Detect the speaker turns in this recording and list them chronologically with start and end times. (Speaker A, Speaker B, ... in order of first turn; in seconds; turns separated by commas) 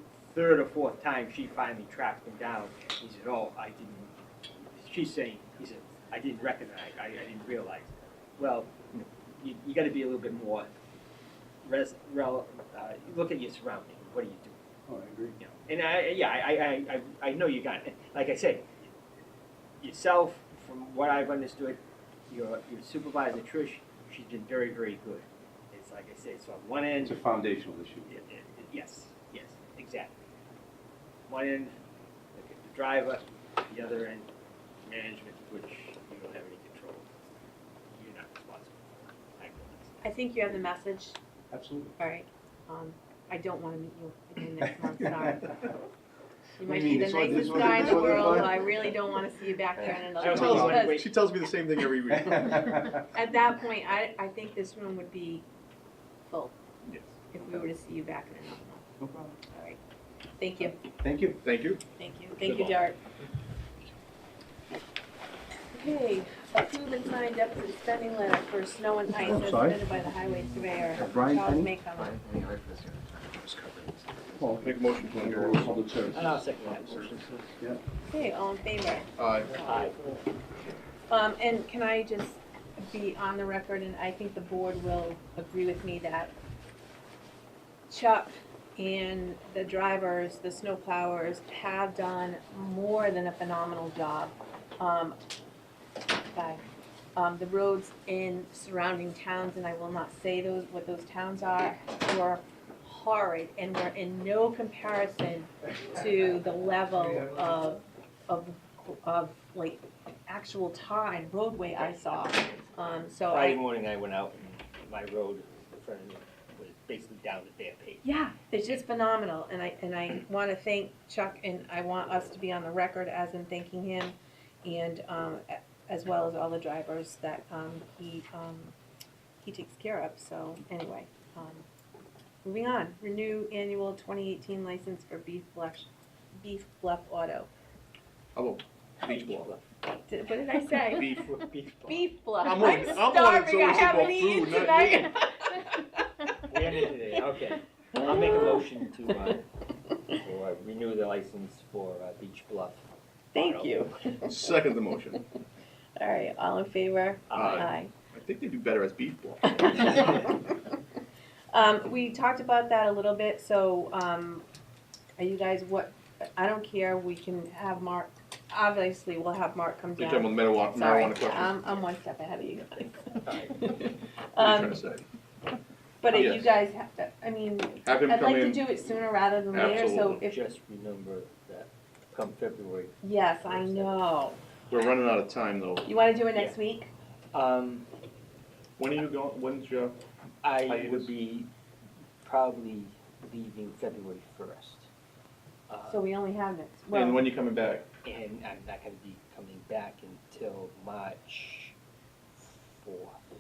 Speaker A: 0.2-4.1, Speaker A: 4.7-10.7, Speaker A: 11.6-14.6, Speaker B: 14.9-15.4, Speaker A: 15.4-18.8, Speaker A: 19.8-27.3, Speaker B: 27.0-28.2, Speaker A: 28.1-30.1, Speaker A: 31.3-31.8, Speaker A: 32.4-34.3, Speaker A: 34.8-37.3, Speaker A: 37.9-40.0, Speaker C: 40.0-41.2, Speaker B: 41.5-42.0, Speaker C: 42.0-45.7, Speaker C: 46.6-51.1, Speaker B: 46.6-48.8, Speaker B: 49.8-50.6, Speaker A: 50.2-51.0, Speaker D: 50.2-53.0, Speaker B: 52.2-53.0, Speaker C: 53.0-55.5, Speaker C: 56.3-56.5, Speaker C: 57.3-58.9, Speaker B: 59.0-59.4, Speaker C: 59.5-59.8, Speaker C: 60.4-60.8, Speaker B: 61.0-61.4, Speaker D: 61.4-61.8, Speaker C: 62.0-63.0, Speaker D: 62.4-62.8, Speaker C: 65.7-72.2, Speaker B: 69.2-69.9, Speaker B: 70.9-71.8, Speaker D: 72.0-75.8, Speaker B: 74.4-76.4, Speaker A: 76.1-77.5, Speaker C: 78.1-79.1, Speaker D: 79.2-79.6, Speaker A: 79.6-80.0, Speaker C: 81.1-86.3, Speaker C: 87.9-95.2, Speaker C: 96.3-96.6, Speaker C: 97.2-113.6, Speaker A: 111.9-112.6, Speaker A: 113.3-118.1, Speaker C: 118.0-128.8, Speaker C: 129.4-131.7, Speaker C: 132.4-137.5, Speaker D: 138.3-139.5, Speaker A: 139.0-139.7, Speaker C: 140.1-141.3, Speaker D: 140.9-141.3, Speaker A: 141.1-142.1, Speaker C: 141.9-145.8, Speaker D: 142.4-145.2, Speaker A: 146.5-149.4, Speaker C: 148.0-148.7, Speaker A: 150.2-152.8, Speaker C: 153.3-154.5, Speaker A: 153.3-154.1, Speaker D: 154.3-155.2, Speaker C: 156.0-157.9, Speaker A: 157.3-157.7, Speaker D: 157.3-160.1, Speaker C: 159.6-160.5, Speaker C: 161.5-164.4, Speaker C: 165.2-174.8, Speaker D: 170.0-171.6, Speaker D: 174.4-175.1, Speaker C: 176.0-180.4, Speaker D: 176.1-176.5, Speaker D: 177.8-178.7, Speaker A: 179.5-184.2, Speaker D: 179.5-180.2, Speaker C: 183.0-184.4, Speaker D: 184.7-185.9, Speaker C: 185.8-186.9, Speaker A: 187.3-187.9, Speaker D: 188.8-190.0, Speaker A: 190.4-191.5, Speaker D: 190.6-191.1, Speaker A: 192.2-194.9, Speaker A: 195.7-196.1, Speaker C: 195.9-197.2, Speaker D: 196.9-197.8, Speaker A: 198.0-201.8, Speaker A: 202.3-203.2